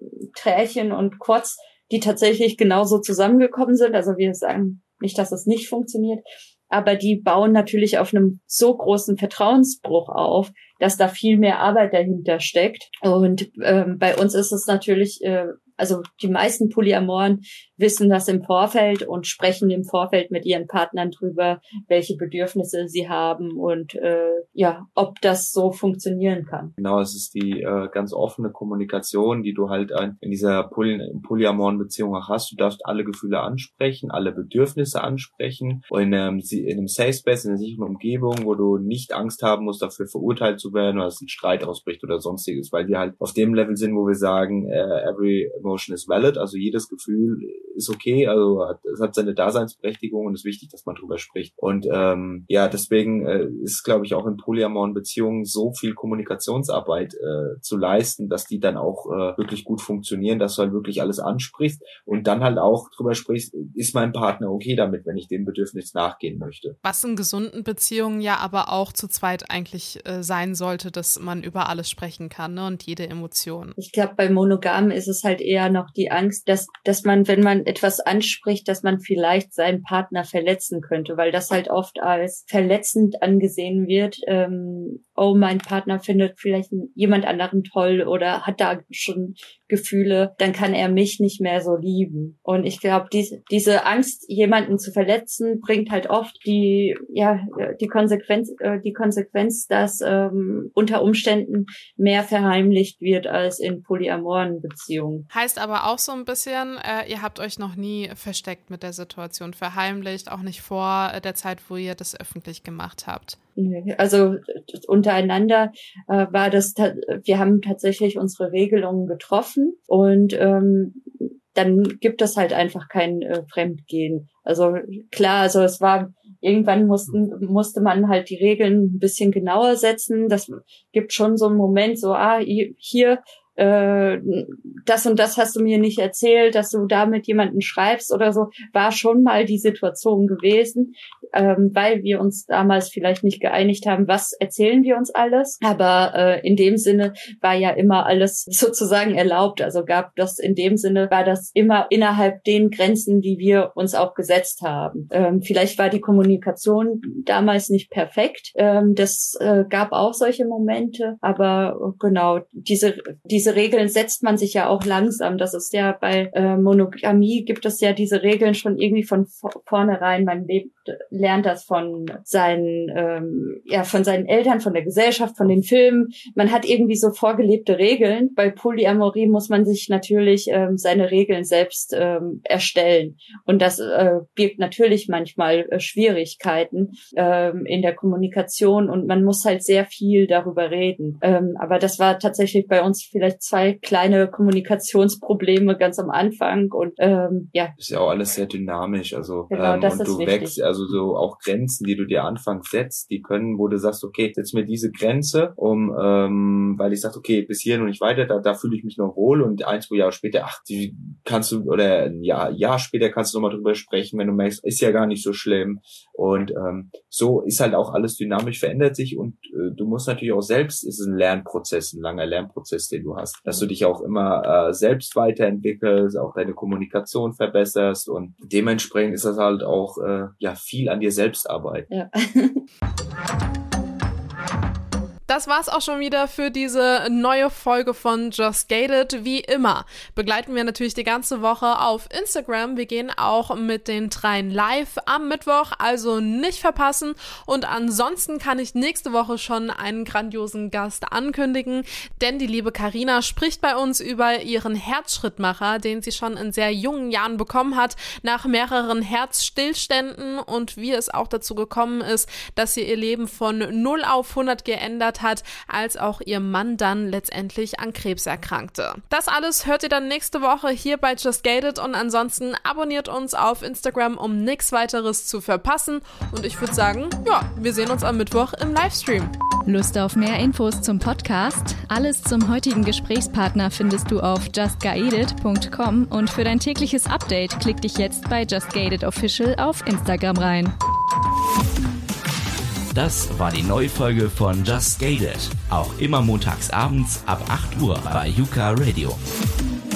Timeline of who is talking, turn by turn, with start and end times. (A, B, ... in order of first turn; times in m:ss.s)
0:00.4-0:26.7 A
0:26.8-1:06.8 B
1:06.8-1:13.8 C
1:13.8-1:45.2 A
1:45.3-1:53.4 C
1:53.6-2:01.0 A
2:01.5-3:17.7 A
3:17.8-3:51.9 B
3:19.5-3:20.6 A
3:51.9-3:52.6 A
3:55.3-4:39.3 C
4:39.7-4:50.7 D
4:52.9-4:59.2 E